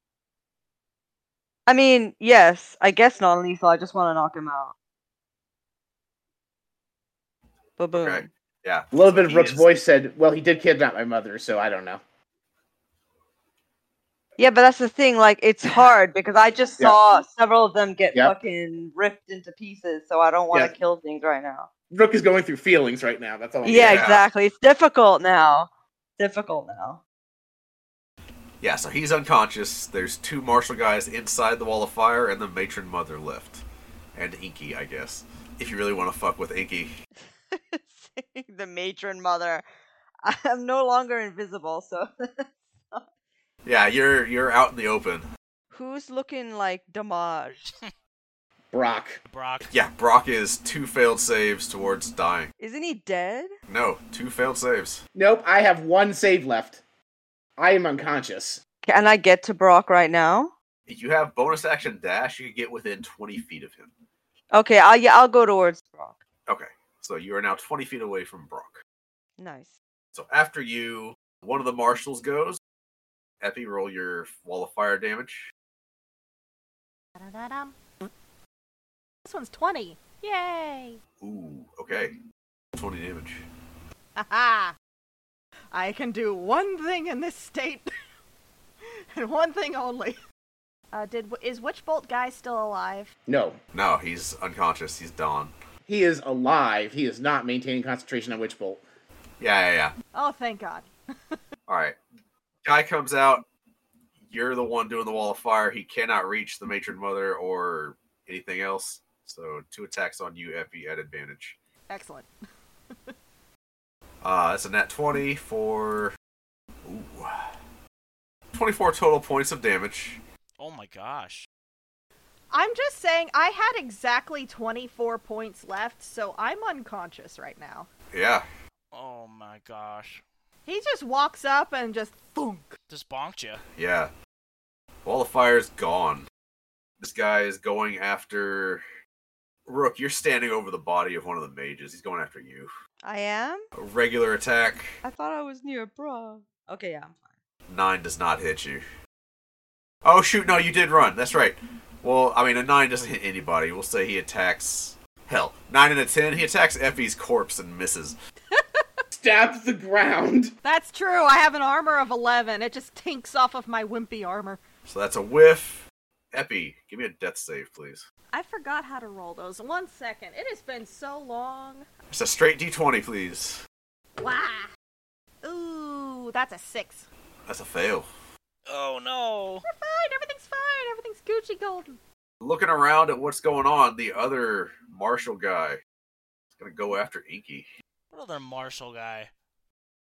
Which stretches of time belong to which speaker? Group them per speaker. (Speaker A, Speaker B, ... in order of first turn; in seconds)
Speaker A: 1.7-4.8, 7.8-8.3, 14.4-21.7, 23.6-27.0, 37.5-39.6, 40.2-43.0, 45.7-47.7, 52.6-53.5, 58.9-60.5, 64.5-66.2, 69.4-69.8, 143.0-143.7, 145.0-147.3
Speaker B: 7.9-9.7, 23.7-24.2, 28.6-33.6, 34.1-37.0, 43.6-45.3, 49.7-52.5, 53.7-55.0, 60.9-63.9, 66.5-68.8, 70.1-72.6, 73.4-75.5, 81.2-82.2, 82.8-83.4, 93.7-95.5, 99.4-99.9, 101.7-102.0, 102.7-103.5, 104.3-111.6, 114.2-116.2, 116.8-117.5, 118.5-120.2, 128.1-128.5, 133.8-134.1, 135.1-136.3, 137.0-138.8, 139.7-142.7, 143.7-145.0, 147.7-148.8, 150.0-158.2, 164.9-168.0, 172.1-173.6, 177.5-178.1, 182.4-185.8, 186.6-187.7
Speaker C: 8.9-12.0, 21.9-24.1, 48.7-49.2, 55.1-56.8, 57.6-58.6, 93.3-93.6, 95.9-98.8, 159.1-160.6
Speaker D: 49.3-49.7, 120.6-121.5, 128.9-130.2, 132.9-133.6, 178.7-179.7, 188.1-189.3
Speaker E: 77.2-78.0, 79.2-81.0, 84.2-84.8, 85.7-87.9, 89.1-90.2, 90.9-93.1, 100.1-100.9, 111.9-112.3, 122.5-127.9, 130.7-132.8, 160.6-164.6, 168.3-171.9, 174.2-174.7, 175.4-177.1, 179.6-182.0